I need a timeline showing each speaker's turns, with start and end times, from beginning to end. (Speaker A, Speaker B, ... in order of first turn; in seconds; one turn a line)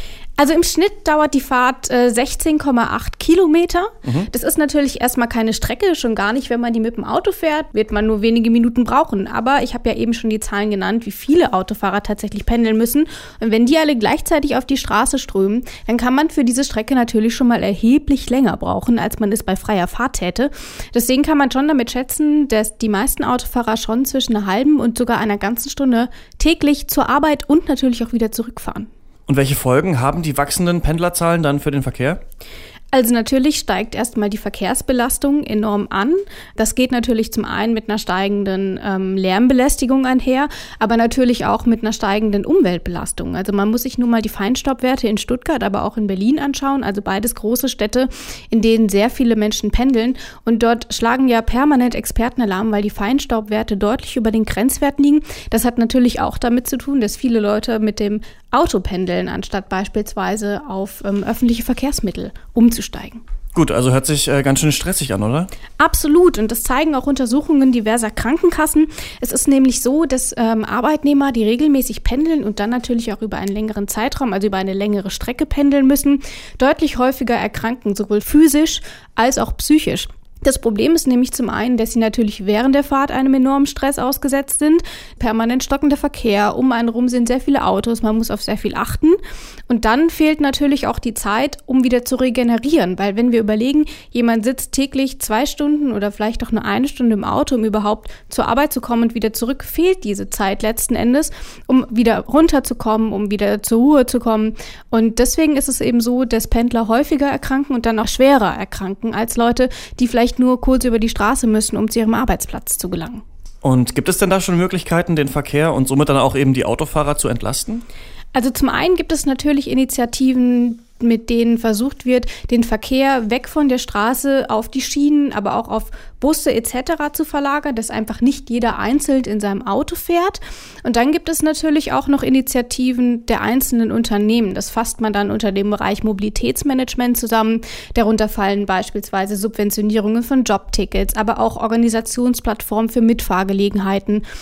Speaker A: 0.4-28.9
Speaker B: 29.3-32.2
Speaker A: 32.9-63.2
Speaker B: 63.5-65.5
Speaker A: 65.8-113.2
Speaker B: 113.6-117.8
Speaker A: 118.3-144.2